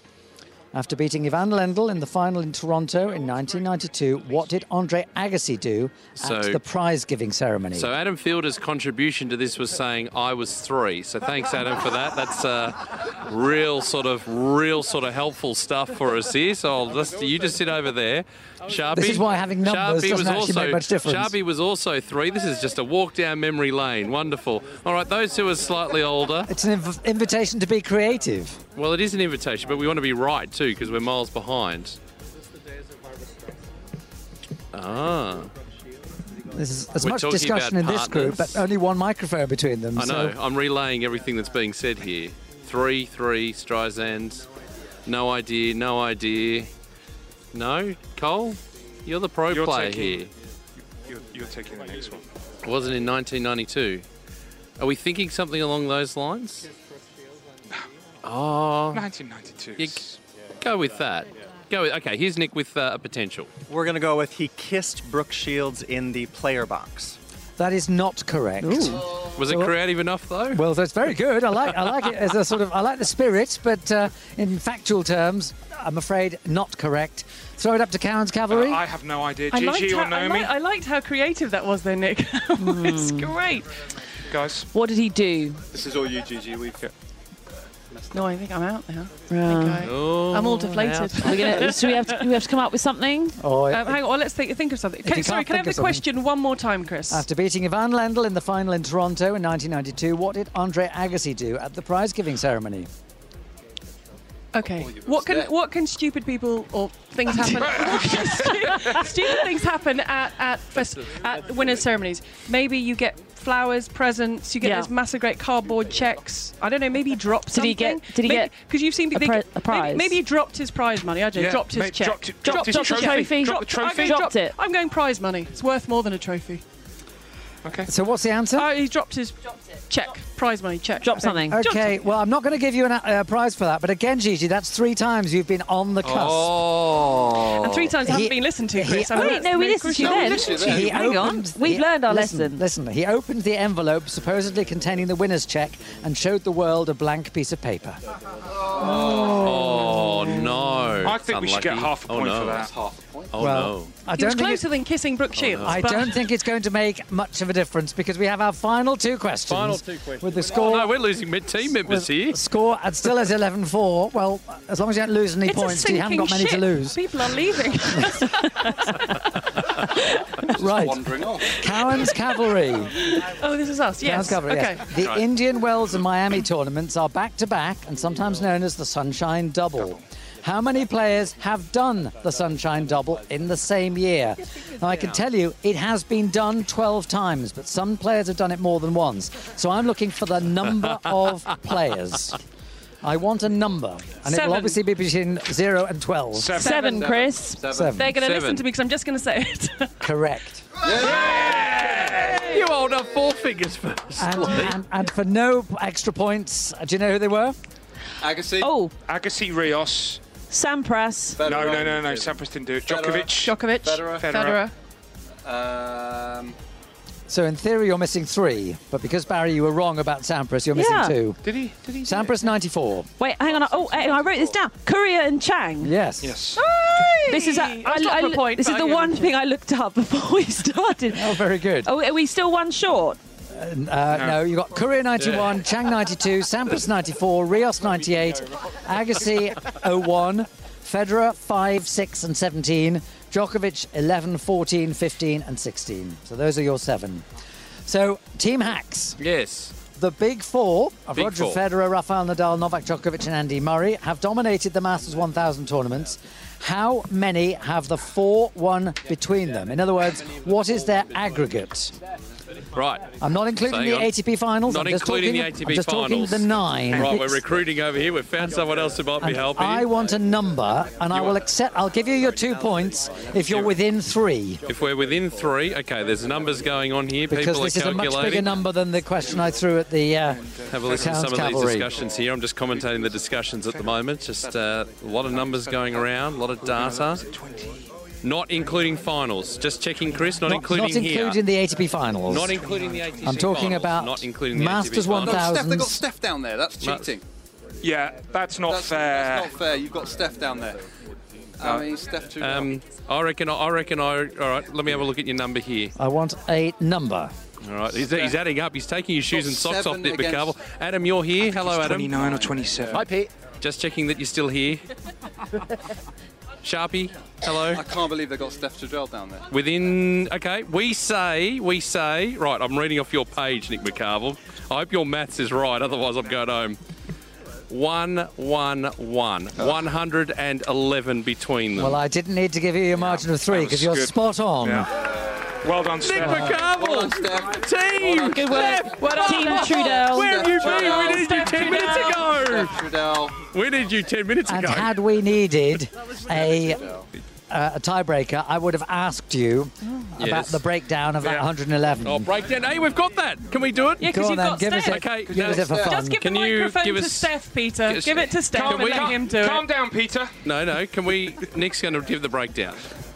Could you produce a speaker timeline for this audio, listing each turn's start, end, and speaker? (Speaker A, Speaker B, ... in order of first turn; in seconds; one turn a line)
Speaker A: 0.7-7.9
Speaker B: 6.2-6.6
Speaker B: 7.8-26.5
Speaker A: 18.9-21.3
Speaker A: 26.5-28.6
Speaker B: 28.8-32.0
Speaker B: 34.7-35.5
Speaker A: 36.5-40.3
Speaker B: 37.0-38.6
Speaker B: 40.0-44.4
Speaker B: 45.1-46.7
Speaker B: 47.5-50.3
Speaker C: 49.5-50.3
Speaker C: 51.0-52.2
Speaker B: 52.6-54.0
Speaker B: 54.8-56.6
Speaker B: 58.2-59.1
Speaker C: 58.9-60.2
Speaker B: 59.8-60.0
Speaker B: 60.6-63.5
Speaker D: 63.7-67.2
Speaker A: 67.6-69.8
Speaker E: 68.7-69.0
Speaker B: 69.3-70.6
Speaker A: 70.5-78.8
Speaker C: 78.5-80.5
Speaker F: 79.5-83.7
Speaker E: 82.6-83.3
Speaker C: 84.3-84.7
Speaker E: 84.7-85.6
Speaker G: 85.7-86.8
Speaker F: 88.1-92.3
Speaker E: 89.3-89.9
Speaker B: 89.8-91.7
Speaker E: 91.2-93.4
Speaker A: 93.4-94.0
Speaker F: 93.7-97.3
Speaker A: 95.0-96.0
Speaker A: 97.1-102.9
Speaker F: 104.5-126.6
Speaker G: 104.6-105.5
Speaker C: 107.4-109.1
Speaker E: 114.6-114.9
Speaker E: 117.5-118.5
Speaker E: 119.1-120.2
Speaker C: 121.3-124.2
Speaker E: 122.4-124.6
Speaker C: 127.6-127.9
Speaker A: 127.9-128.7
Speaker F: 128.6-132.1
Speaker E: 131.0-131.6
Speaker A: 131.5-136.5
Speaker B: 136.0-137.9
Speaker F: 137.6-140.9
Speaker A: 138.0-139.5
Speaker E: 139.1-142.6
Speaker G: 139.9-141.1
Speaker A: 140.5-148.0
Speaker G: 148.6-149.7
Speaker A: 148.8-150.3
Speaker B: 149.4-152.7
Speaker C: 151.0-152.7
Speaker G: 152.4-153.3
Speaker B: 153.3-153.9
Speaker A: 153.4-154.6
Speaker F: 154.1-156.2
Speaker B: 155.4-155.9
Speaker A: 155.6-161.0
Speaker B: 159.5-162.4
Speaker A: 161.6-167.0
Speaker F: 165.4-169.1
Speaker G: 170.5-172.1
Speaker A: 170.5-172.9
Speaker F: 171.9-172.3
Speaker F: 173.0-174.9
Speaker A: 174.0-192.4
Speaker B: 174.9-175.2
Speaker A: 193.0-196.6
Speaker F: 194.2-194.8
Speaker C: 196.3-197.0
Speaker E: 196.6-197.6
Speaker F: 196.6-197.1
Speaker G: 196.7-198.0
Speaker A: 197.7-198.1
Speaker F: 197.8-200.0
Speaker B: 198.2-198.7
Speaker A: 200.0-200.7
Speaker G: 200.8-202.3
Speaker B: 200.9-204.8
Speaker A: 204.2-207.6
Speaker G: 208.2-208.7
Speaker E: 208.6-208.9
Speaker C: 209.1-210.2
Speaker E: 210.5-211.4
Speaker G: 211.4-212.2
Speaker C: 211.4-213.6
Speaker G: 212.8-214.3
Speaker F: 213.4-214.7
Speaker C: 214.2-214.6
Speaker G: 215.4-216.6
Speaker A: 217.3-221.4
Speaker E: 220.8-221.2
Speaker C: 221.4-222.3
Speaker A: 222.0-223.1
Speaker E: 223.2-225.9
Speaker G: 223.8-224.6
Speaker A: 225.8-226.4
Speaker C: 226.2-226.6
Speaker E: 226.6-233.2
Speaker F: 226.8-229.3
Speaker A: 231.1-231.9
Speaker A: 233.5-247.3
Speaker C: 234.1-234.4
Speaker B: 235.2-235.5
Speaker A: 247.9-249.2
Speaker B: 249.2-249.7
Speaker A: 250.0-261.9
Speaker B: 251.2-251.6
Speaker B: 262.8-264.1
Speaker A: 263.2-267.4
Speaker B: 264.7-269.9
Speaker A: 269.2-274.6
Speaker B: 274.7-278.5
Speaker A: 277.3-281.9
Speaker C: 280.4-281.1
Speaker B: 280.7-287.2
Speaker C: 286.7-287.8
Speaker B: 288.2-291.4
Speaker A: 290.5-292.6
Speaker B: 292.3-295.5
Speaker C: 292.6-293.0
Speaker A: 293.2-296.0
Speaker G: 295.2-297.2
Speaker B: 296.8-297.1
Speaker C: 297.8-299.5
Speaker G: 298.7-300.8
Speaker G: 301.6-302.7
Speaker B: 302.4-305.9
Speaker A: 306.0-307.3
Speaker B: 307.6-312.2
Speaker G: 309.3-310.5
Speaker C: 311.4-313.1
Speaker G: 312.1-313.0
Speaker B: 312.9-314.8
Speaker B: 316.6-317.8
Speaker G: 317.7-319.5
Speaker B: 319.5-326.8
Speaker B: 327.7-332.0
Speaker A: 331.8-334.9
Speaker C: 333.0-334.9
Speaker C: 335.6-336.6
Speaker B: 336.0-342.7
Speaker G: 336.6-343.4
Speaker E: 338.2-340.4
Speaker F: 339.1-339.7
Speaker F: 340.5-342.3
Speaker B: 343.5-344.9
Speaker A: 344.5-346.8
Speaker G: 346.8-347.1
Speaker A: 347.5-352.3
Speaker B: 350.2-350.6
Speaker B: 351.2-351.5
Speaker B: 352.0-354.1
Speaker F: 354.0-355.0
Speaker A: 354.1-356.2
Speaker B: 354.9-357.3
Speaker C: 355.3-355.7
Speaker G: 355.6-356.0
Speaker F: 355.7-359.7
Speaker B: 357.9-359.2
Speaker C: 358.5-360.3
Speaker B: 360.4-362.8